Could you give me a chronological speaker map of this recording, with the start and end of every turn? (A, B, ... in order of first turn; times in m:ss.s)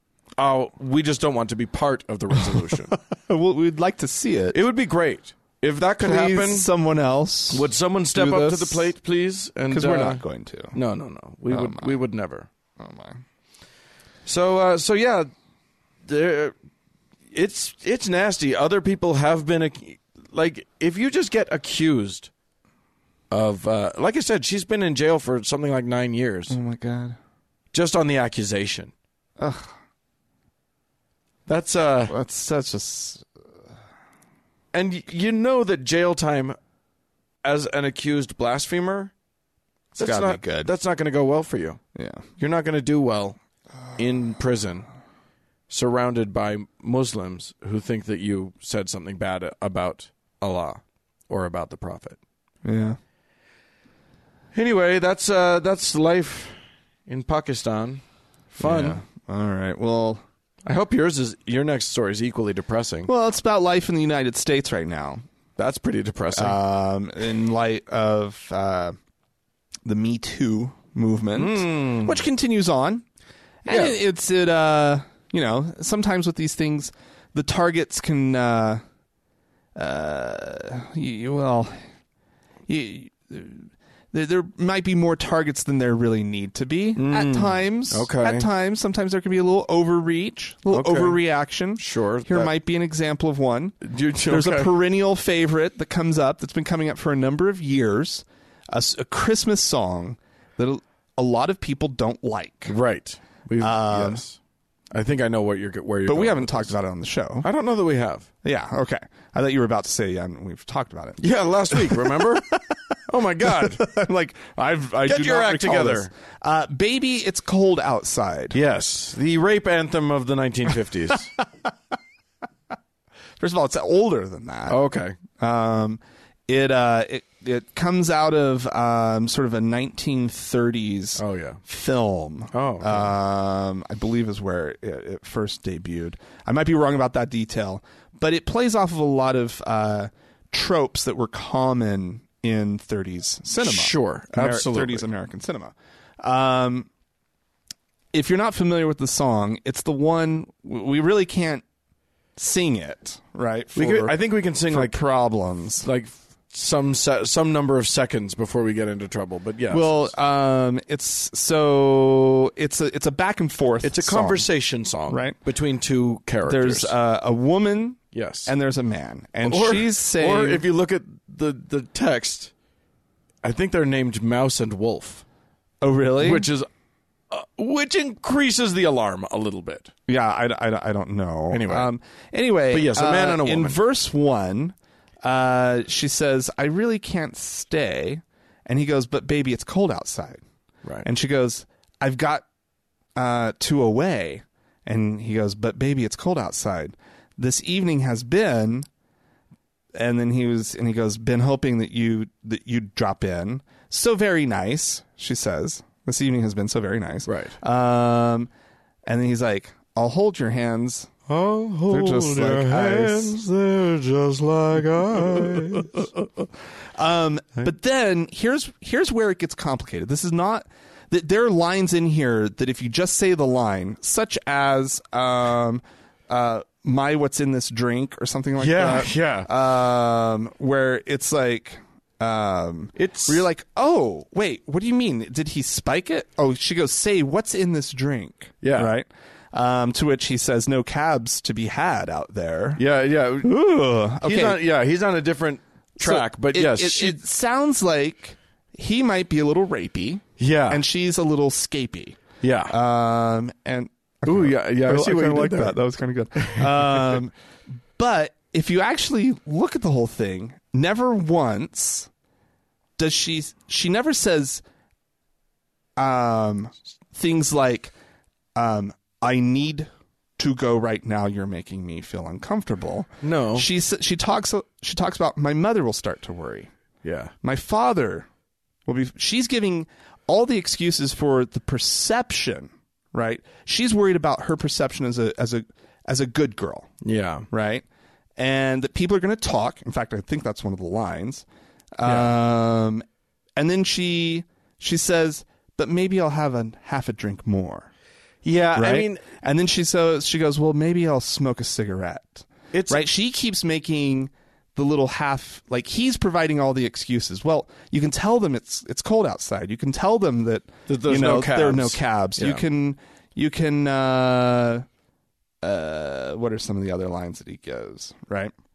0:00.4-0:02.9 A
0:02.4-0:04.6 B
0:04.5-0:06.7 A
0:06.0-0:08.9 B
0:07.5-0:10.2 A
0:09.7-0:10.8 B
0:10.7-0:12.5 A
0:11.5-0:12.0 B
0:12.8-0:13.2 B
0:14.3-0:15.3 A
0:16.0-0:16.6 A
0:17.3-0:22.3 A
0:23.3-0:26.6 A
0:26.5-0:27.2 B
0:27.7-0:28.9 A
0:29.4-0:29.8 B
0:31.5-0:32.2 A
0:32.1-0:33.3 B
0:34.7-0:36.6 A
0:37.4-0:39.1 A
0:39.9-0:41.8 A
0:40.0-0:40.7 B
0:42.0-0:42.2 B
0:42.4-0:43.4 A
0:44.0-0:44.9 A
0:45.7-0:52.2 A
0:52.6-0:53.0 B
0:54.5-0:59.0 A
0:58.6-1:00.2 B
1:00.6-1:03.1 A
1:03.1-1:05.2 B
1:05.6-1:06.6 A
1:06.4-1:09.0 B
1:09.8-1:13.0 B
1:11.4-1:12.2 A
1:13.6-1:18.8 B
1:13.7-1:14.0 A
1:19.8-1:21.8 B
1:22.7-1:42.7 B
1:27.0-1:28.5 A
1:30.7-1:31.2 A
1:31.8-1:32.5 A
1:33.8-1:34.7 A
1:42.7-1:44.4 A
1:43.6-1:44.2 B
1:44.9-1:46.8 A
1:46.1-1:47.5 B
1:47.4-1:48.3 A
1:48.4-1:58.6 B
1:51.2-1:52.5 A
1:53.1-1:53.8 A
1:55.0-1:56.1 A
1:58.5-2:01.3 A
2:01.4-2:01.7 B
2:03.4-2:26.9 B
2:04.7-2:05.2 A
2:11.2-2:11.6 A
2:12.5-2:13.1 A
2:23.6-2:25.1 A
2:28.1-2:31.6 B
2:32.4-2:35.9 B
2:33.8-2:35.0 A
2:35.8-2:40.1 A
2:39.7-2:44.5 B
2:43.8-2:46.9 A
2:45.1-2:45.4 B
2:46.4-2:50.6 B
2:48.1-2:48.5 A
2:49.4-2:52.5 A
2:53.4-2:55.2 A
2:55.8-2:56.5 B
2:56.2-2:56.7 A
2:57.3-2:59.9 A
3:00.1-3:10.4 B
3:01.5-3:01.9 A
3:02.7-3:03.8 A
3:11.0-3:12.4 B
3:13.2-3:18.9 B
3:19.9-3:28.5 B
3:27.3-3:27.6 A
3:29.1-3:31.1 B
3:31.3-3:36.1 A
3:31.9-3:33.4 B
3:35.1-3:36.1 B
3:37.0-4:02.8 B
3:48.6-3:49.5 A
3:53.0-3:53.5 A
3:58.6-3:58.9 A
4:02.8-4:03.6 A
4:03.4-4:04.6 B
4:04.2-4:07.2 A
4:06.0-4:22.1 B
4:10.4-4:10.8 A
4:12.4-4:12.8 A
4:14.2-4:15.8 A
4:16.4-4:17.2 A
4:23.0-4:24.6 B
4:26.0-4:27.9 B
4:28.6-4:36.7 B
4:33.2-4:33.7 A
4:37.0-4:37.3 A
4:37.4-4:38.3 B
4:38.9-4:46.9 B
4:47.0-4:47.5 A
4:47.5-4:47.8 B
4:48.4-4:51.4 B
4:52.0-4:53.0 B
4:52.0-4:52.3 A
4:53.6-4:57.9 B
4:58.4-4:59.3 A
4:58.8-5:14.9 B
5:02.7-5:03.0 A
5:10.9-5:12.6 A
5:15.6-5:18.5 B